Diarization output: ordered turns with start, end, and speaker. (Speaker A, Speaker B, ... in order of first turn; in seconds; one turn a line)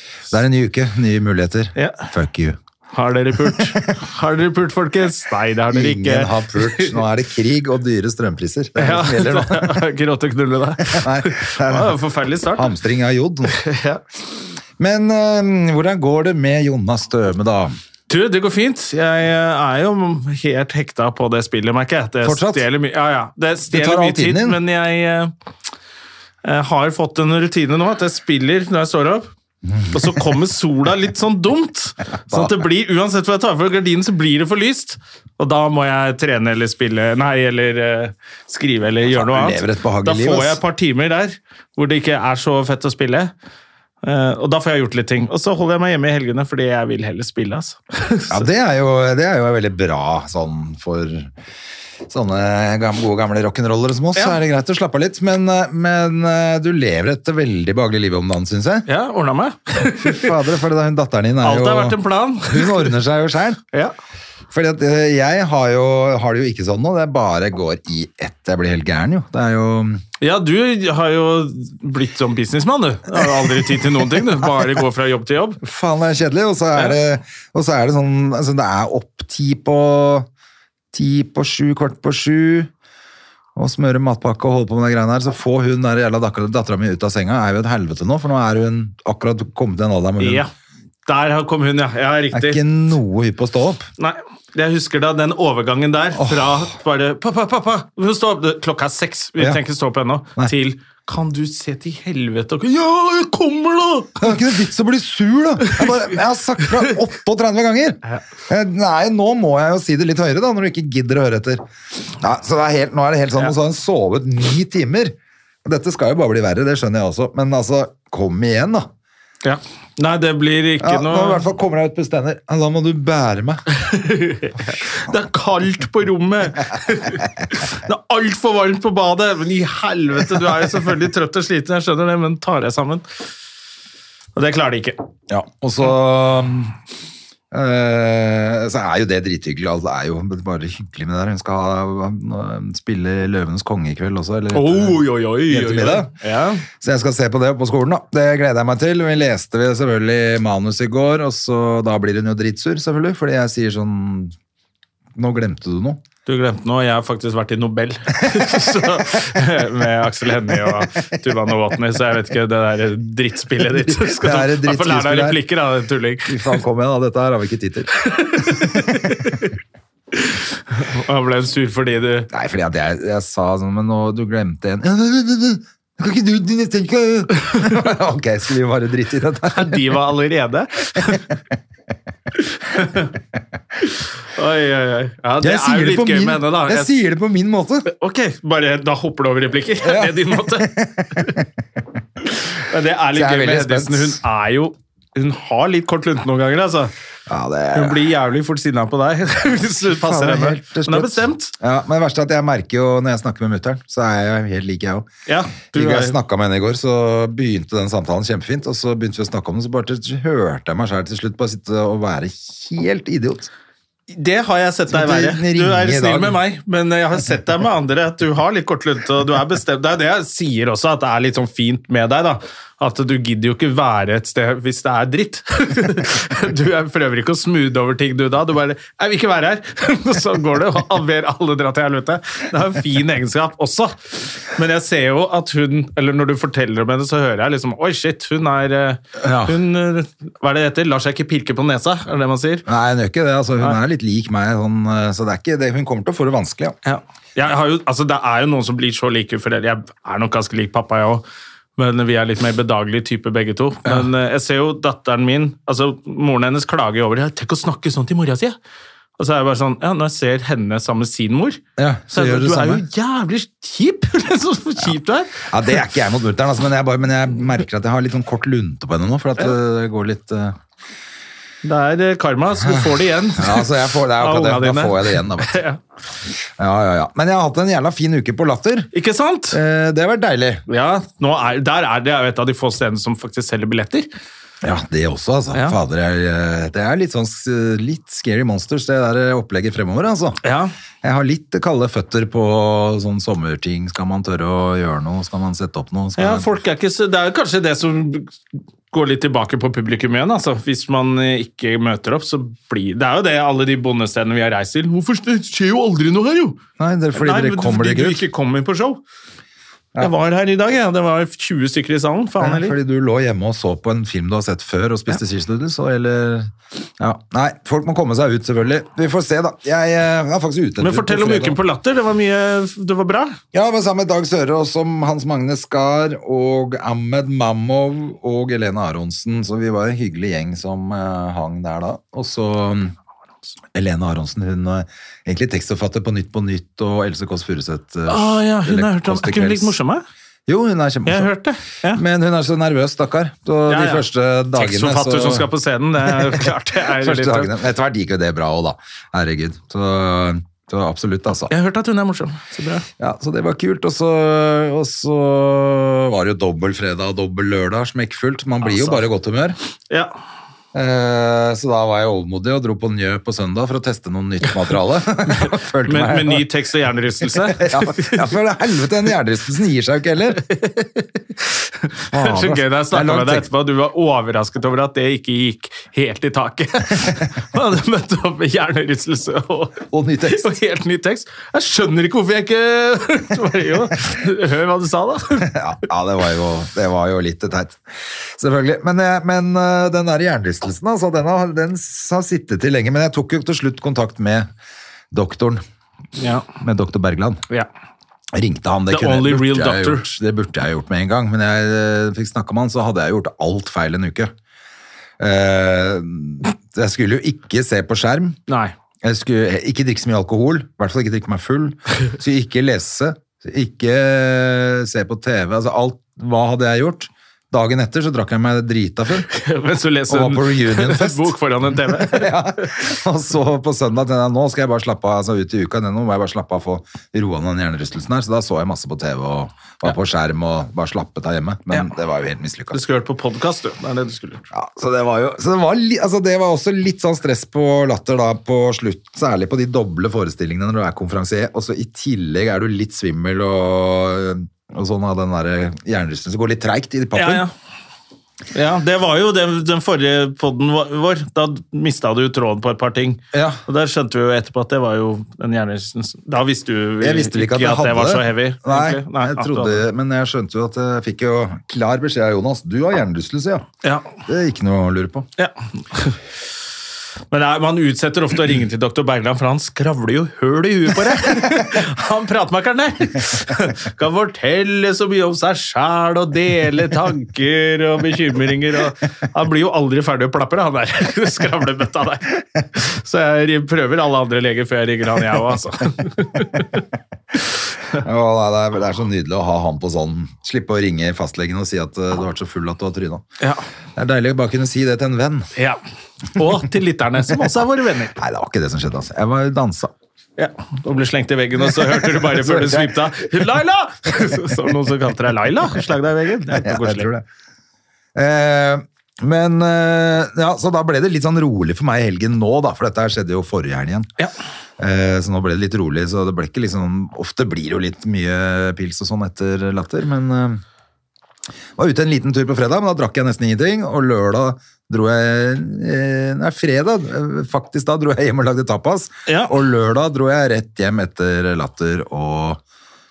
Speaker A: 0.3-2.6
Speaker B: 1.8-2.1
Speaker B: 2.9-7.0
Speaker A: 5.7-9.8
Speaker B: 8.8-12.7
Speaker A: 10.9-12.0
Speaker A: 12.5-13.6
Speaker B: 13.5-14.0
Speaker A: 14.8-17.7
Speaker B: 18.1-25.3
Speaker A: 22.2-22.7
Speaker A: 23.7-24.6
Speaker B: 26.4-29.3
Speaker B: 29.9-43.3
Speaker A: 32.2-32.5
Speaker A: 39.1-40.6
Speaker B: 44.0-48.4
Speaker A: 48.3-51.3
Speaker A: 52.1-58.9
Speaker B: 58.9-60.3
Speaker A: 60.0-63.6
Speaker B: 61.4-62.9
Speaker A: 64.5-70.0
Speaker B: 70.2-75.6
Speaker A: 75.6-80.3
Speaker A: 80.9-82.7
Speaker A: 83.6-90.5
Speaker B: 90.2-90.5
Speaker B: 91.1-92.6
Speaker A: 92.3-93.9
Speaker B: 94.0-104.4
Speaker A: 96.2-96.6
Speaker A: 104.2-118.9
Speaker B: 119.4-121.5
Speaker A: 120.8-123.6
Speaker B: 123.8-133.1
Speaker B: 134.3-135.0
Speaker A: 135.3-136.7
Speaker A: 137.5-146.1
Speaker B: 144.5-146.7
Speaker A: 146.8-154.3
Speaker A: 155.2-156.0
Speaker B: 156.3-166.6
Speaker A: 163.8-165.4
Speaker A: 166.3-169.4
Speaker B: 168.1-169.5
Speaker B: 170.2-172.3
Speaker A: 172.3-179.9
Speaker B: 179.5-181.3
Speaker B: 182.7-183.1
Speaker B: 184.4-187.0
Speaker A: 185.4-187.9
Speaker B: 187.9-191.4
Speaker A: 189.8-191.5
Speaker B: 192.4-196.9
Speaker A: 193.1-194.2
Speaker A: 197.3-198.1
Speaker B: 197.7-201.5
Speaker A: 199.8-205.1
Speaker B: 205.3-206.2
Speaker A: 205.7-213.5
Speaker B: 214.1-242.7
Speaker A: 214.9-216.4
Speaker A: 239.2-239.6
Speaker A: 242.7-246.8
Speaker B: 246.8-251.2
Speaker B: 251.8-258.6
Speaker B: 259.2-261.6
Speaker A: 261.8-262.8
Speaker B: 262.1-265.8
Speaker A: 265.5-270.6
Speaker B: 271.6-275.8
Speaker A: 272.6-275.6
Speaker A: 276.6-278.9
Speaker B: 278.9-279.6
Speaker A: 279.5-280.6
Speaker B: 280.7-284.1
Speaker A: 284.6-290.4
Speaker B: 290.4-290.8
Speaker A: 291.0-296.5
Speaker B: 296.2-306.6
Speaker A: 306.8-308.2
Speaker B: 307.1-309.0
Speaker B: 310.0-312.8
Speaker A: 312.4-321.6
Speaker B: 320.8-323.4
Speaker A: 323.5-332.9
Speaker A: 333.7-339.8
Speaker B: 338.1-340.1
Speaker A: 340.5-341.3
Speaker B: 341.1-342.0
Speaker A: 341.9-345.5
Speaker B: 343.7-347.5
Speaker A: 346.1-346.4
Speaker A: 347.0-351.5
Speaker B: 351.5-352.9
Speaker A: 353.0-359.6
Speaker B: 358.6-359.0
Speaker A: 360.7-366.5
Speaker B: 365.4-368.3
Speaker A: 367.4-370.4
Speaker B: 370.4-385.5
Speaker A: 372.1-373.5
Speaker A: 379.9-380.5
Speaker A: 385.5-394.5
Speaker A: 395.1-395.6
Speaker B: 396.2-396.5
Speaker A: 396.6-397.4
Speaker A: 398.3-404.3
Speaker B: 398.9-400.1
Speaker A: 405.2-408.4
Speaker B: 408.5-408.7
Speaker A: 409.0-419.3
Speaker B: 419.2-422.7
Speaker A: 420.1-432.8
Speaker B: 432.7-434.4
Speaker A: 434.5-447.4
Speaker B: 447.1-447.5
Speaker B: 448.5-459.8
Speaker A: 453.3-453.6
Speaker A: 457.0-463.7
Speaker B: 463.8-464.1
Speaker A: 464.3-465.3
Speaker B: 465.4-466.2
Speaker B: 467.3-486.8
Speaker A: 487.9-493.3
Speaker A: 494.0-495.5
Speaker B: 496.4-498.2
Speaker A: 498.2-499.9
Speaker B: 500.4-507.1
Speaker A: 502.2-503.0
Speaker A: 506.6-507.2
Speaker A: 508.1-514.1
Speaker A: 514.8-520.6
Speaker A: 521.8-532.6
Speaker B: 529.3-529.5